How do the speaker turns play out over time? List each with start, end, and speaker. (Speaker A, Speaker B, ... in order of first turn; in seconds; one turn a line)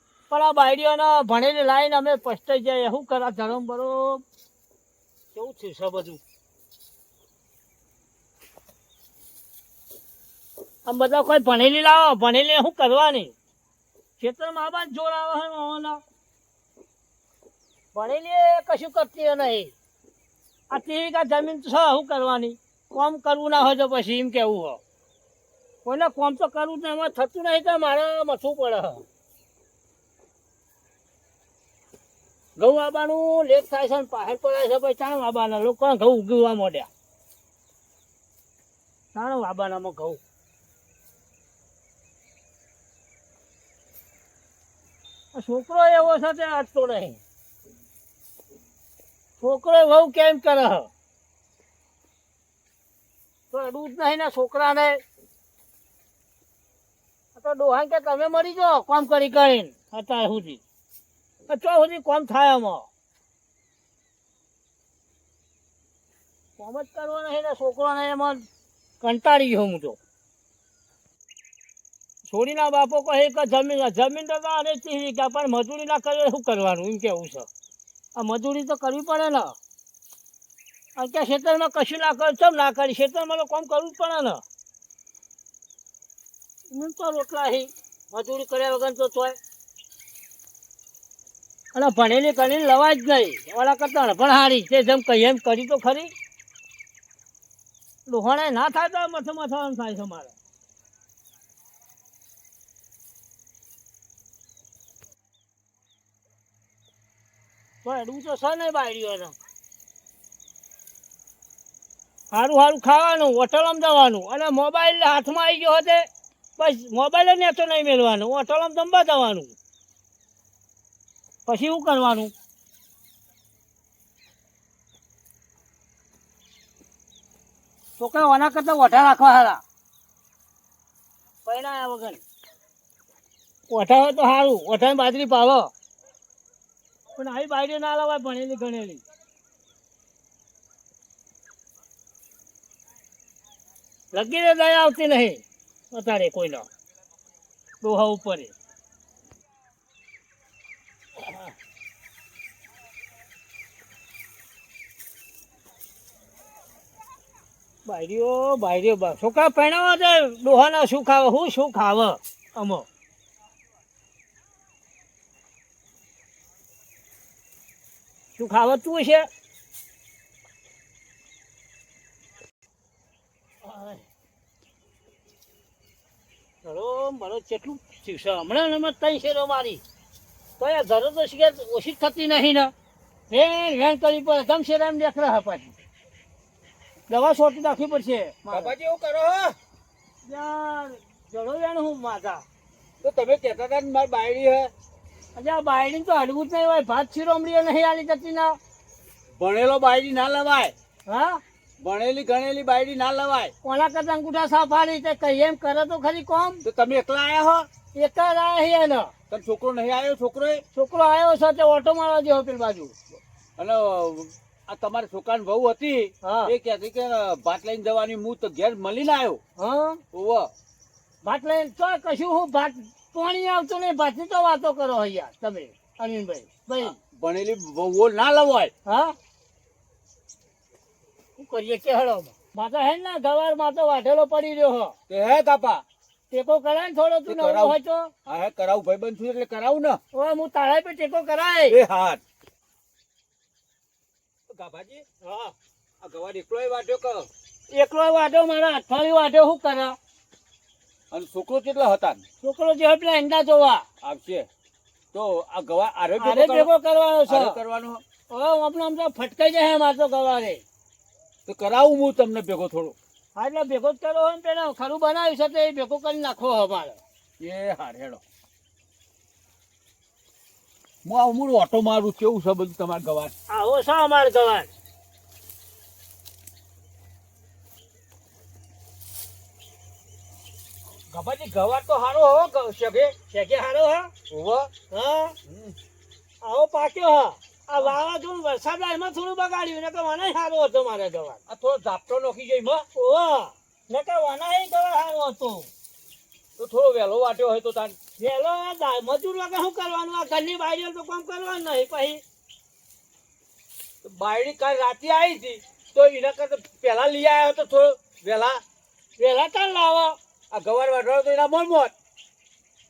Speaker A: 0.3-4.2
Speaker A: 5.3-6.2
Speaker A: 10.8-13.3
Speaker A: 14.2-16.0
Speaker A: 17.9-19.7
Speaker A: 20.7-24.8
Speaker A: 25.8-29.0
Speaker A: 32.6-36.9
Speaker A: 39.1-40.2
Speaker A: 45.3-47.2
Speaker A: 49.4-50.9
Speaker A: 53.5-55.0
Speaker A: 57.3-60.6
Speaker A: 61.5-62.9
Speaker A: 66.6-68.4
Speaker A: 69.0-70.0
Speaker A: 72.2-77.5
Speaker A: 78.2-79.5
Speaker A: 81.0-84.4
Speaker A: 86.7-89.4
Speaker A: 91.7-96.1
Speaker A: 98.0-100.3
Speaker A: 107.8-109.3
Speaker A: 112.3-116.1
Speaker A: 116.6-119.5
Speaker A: 121.5-122.3
Speaker A: 128.0-129.6
Speaker A: 131.4-132.2
Speaker A: 133.7-135.7
Speaker A: 137.1-139.0
Speaker A: 144.1-146.7
Speaker A: 147.8-148.5
Speaker A: 151.2-151.5
Speaker A: 157.8-162.8
Speaker A: 168.3-169.3
Speaker A: 173.6-174.0
Speaker A: 176.6-179.8
Speaker A: 180.6-182.7
Speaker A: 183.3-185.7
Speaker A: 187.1-188.7
Speaker B: 188.5-189.6
Speaker A: 190.2-192.4
Speaker B: 193.0-194.7
Speaker A: 195.3-198.6
Speaker B: 199.4-200.7
Speaker A: 201.1-201.4
Speaker B: 201.8-203.5
Speaker A: 203.6-206.6
Speaker B: 206.6-207.7
Speaker A: 207.9-209.1
Speaker B: 209.3-210.6
Speaker A: 210.7-212.9
Speaker B: 213.6-219.4
Speaker A: 216.2-216.5
Speaker A: 219.6-220.0
Speaker B: 220.1-220.5
Speaker A: 221.2-226.9
Speaker B: 226.8-228.7
Speaker A: 228.8-229.1
Speaker A: 231.4-234.9
Speaker B: 235.1-235.8
Speaker A: 236.3-238.1
Speaker B: 237.3-240.0
Speaker A: 240.1-241.8
Speaker B: 241.7-242.2
Speaker B: 244.5-245.0
Speaker A: 245.2-245.5
Speaker B: 246.0-247.3
Speaker A: 247.7-249.9
Speaker B: 251.1-252.2
Speaker A: 252.4-253.8
Speaker B: 254.0-254.5
Speaker B: 255.1-256.7
Speaker A: 256.2-257.6
Speaker B: 257.3-258.0
Speaker A: 258.3-260.6
Speaker B: 261.5-262.9
Speaker A: 263.3-267.0
Speaker B: 267.4-268.2
Speaker B: 271.0-273.3
Speaker A: 273.5-274.7
Speaker B: 281.1-283.1
Speaker A: 283.3-284.1
Speaker B: 284.3-284.7
Speaker A: 284.9-285.3
Speaker B: 285.5-285.7
Speaker A: 286.4-291.4
Speaker B: 291.5-292.8
Speaker A: 292.9-295.7
Speaker B: 296.6-297.9
Speaker A: 298.2-302.2
Speaker B: 304.0-308.6
Speaker A: 309.2-310.2
Speaker B: 310.5-311.9